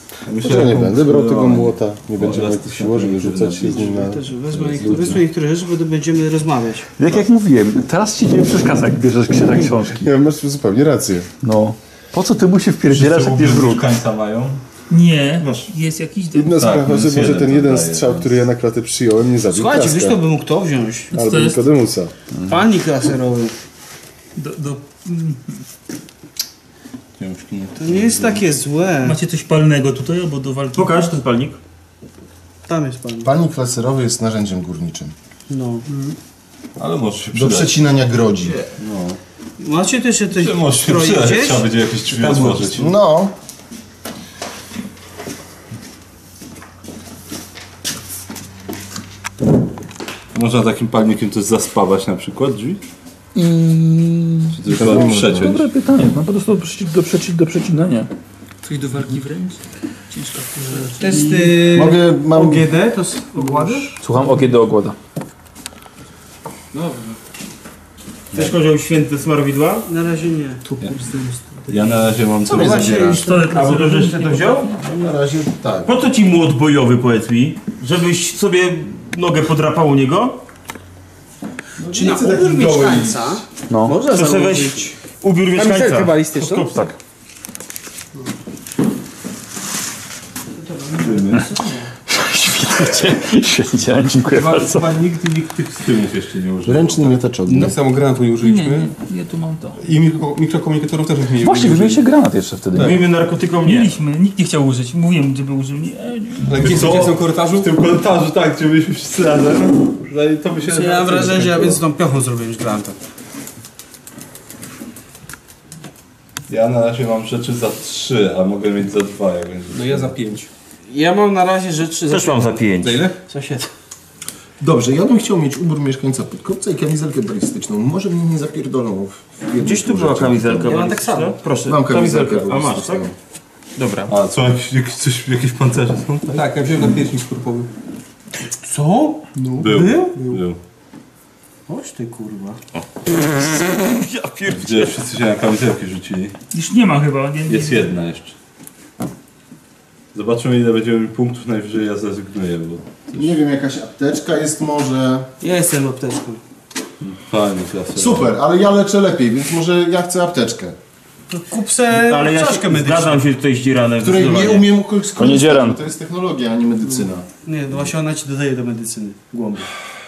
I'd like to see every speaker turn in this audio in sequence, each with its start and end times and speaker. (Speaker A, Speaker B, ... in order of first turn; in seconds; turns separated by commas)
Speaker A: 0.2-5.2, Speaker B: 0.4-4.2, Speaker C: 3.8-6.9, Speaker B: 4.8-5.1, Speaker D: 7.0-10.0, Speaker B: 9.8-11.3, Speaker D: 11.4-13.9, Speaker A: 12.9-14.6, Speaker E: 14.9-16.6, Speaker B: 16.3-20.2, Speaker A: 16.6-18.3, Speaker C: 19.5-21.1, Speaker B: 21.1-22.1, Speaker E: 21.1-21.6, Speaker C: 22.4-23.6, Speaker E: 24.4-25.6, Speaker A: 27.2-28.5, Speaker C: 27.8-29.2, Speaker E: 29.0-31.1, Speaker F: 30.7-31.6, Speaker C: 32.6-33.3, Speaker B: 33.2-35.1, Speaker C: 35.5-36.1, Speaker A: 36.8-37.7, Speaker B: 37.3-38.6, Speaker A: 38.8-39.2, Speaker C: 39.6-41.7, Speaker A: 40.3-43.0, Speaker B: 42.7-43.3, Speaker A: 50.3-52.8, Speaker D: 53.3-58.1, Speaker A: 54.5-55.6, Speaker B: 54.6-55.6, Speaker E: 58.6-61.7, Speaker C: 60.9-63.9, Speaker B: 61.7-62.7, Speaker G: 63.4-63.9, Speaker D: 64.0-65.0, Speaker C: 66.7-67.2, Speaker F: 68.3-69.9, Speaker C: 69.9-70.9, Speaker G: 70.9-71.5, Speaker A: 71.7-73.3, Speaker C: 72.4-73.7, Speaker F: 72.5-72.8, Speaker E: 73.1-74.8, Speaker F: 73.4-74.7, Speaker B: 74.8-76.0, Speaker F: 75.8-80.4, Speaker B: 81.8-83.4, Speaker C: 81.9-84.9, Speaker D: 83.7-84.0, Speaker F: 84.1-86.8, Speaker C: 85.5-86.9, Speaker C: 90.5-91.9, Speaker A: 91.0-91.5, Speaker D: 92.1-94.9, Speaker G: 94.5-95.5, Speaker A: 94.5-97.2, Speaker B: 96.6-97.8, Speaker G: 97.5-98.9, Speaker E: 98.4-99.8, Speaker G: 99.8-102.0, Speaker D: 101.4-103.0, Speaker F: 102.8-104.0, Speaker E: 103.6-106.6, Speaker G: 106.4-107.7, Speaker A: 106.6-111.8, Speaker C: 110.6-113.0, Speaker A: 116.5-120.2, Speaker G: 119.7-120.5, Speaker C: 120.9-123.7, Speaker F: 122.1-123.0, Speaker B: 124.6-130.8, Speaker F: 129.6-133.1, Speaker C: 130.6-131.4, Speaker B: 131.6-133.1, Speaker F: 133.8-134.1, Speaker A: 134.1-136.4, Speaker G: 136.3-137.7, Speaker C: 138.5-140.4, Speaker G: 139.3-140.4, Speaker A: 139.6-140.6, Speaker C: 141.7-142.6, Speaker F: 143.6-144.7, Speaker A: 144.5-146.3, Speaker E: 146.5-147.9, Speaker A: 147.4-148.3, Speaker A: 150.1-153.3, Speaker B: 153.1-155.3, Speaker C: 155.4-156.4, Speaker A: 157.0-158.3, Speaker B: 157.9-160.8, Speaker C: 161.3-163.2, Speaker F: 161.9-164.7, Speaker B: 164.0-167.2, Speaker D: 165.2-165.8, Speaker C: 167.4-169.7